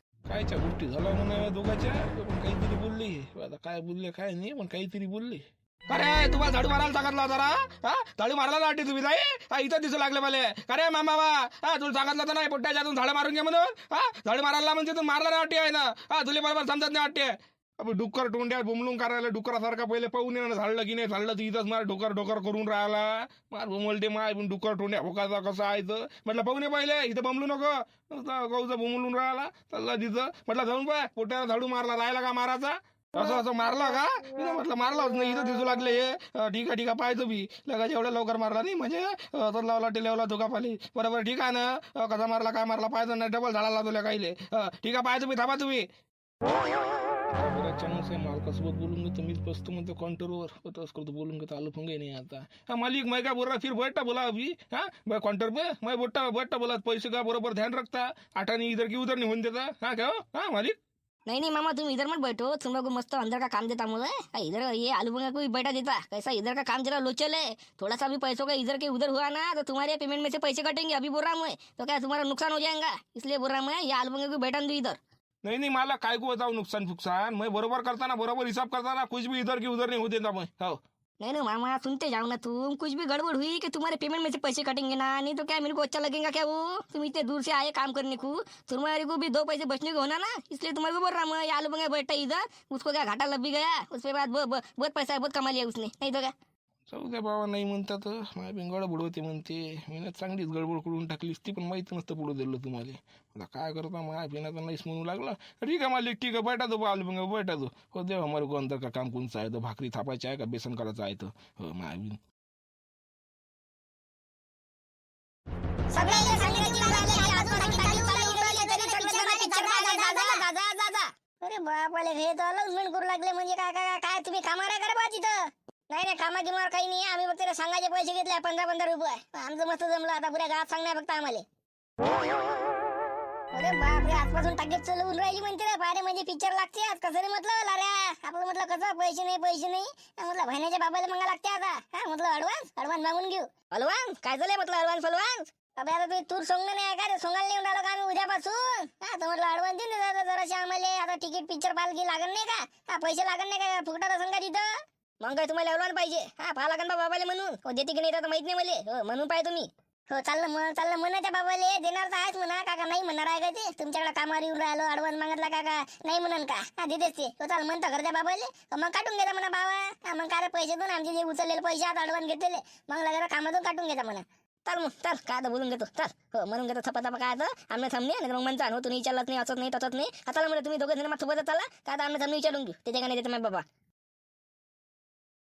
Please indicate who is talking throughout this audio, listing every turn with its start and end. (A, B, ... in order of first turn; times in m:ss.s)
0:00.3-0:45.9 A
0:47.3-1:00.8 A
1:01.2-1:15.0 B
1:15.4-1:20.8 A
1:21.2-1:36.3 B
1:36.9-1:52.2 A
1:55.9-2:01.1 B
1:55.9-2:00.4 C
2:01.4-2:05.4 C
2:05.9-2:06.8 C
2:06.7-2:11.3 B
2:10.6-2:11.4 C
2:13.5-2:23.5 C
2:23.7-2:25.4 B
2:25.8-2:34.7 C
2:35.2-2:39.7 B
2:40.1-2:54.2 C
2:54.6-3:03.6 B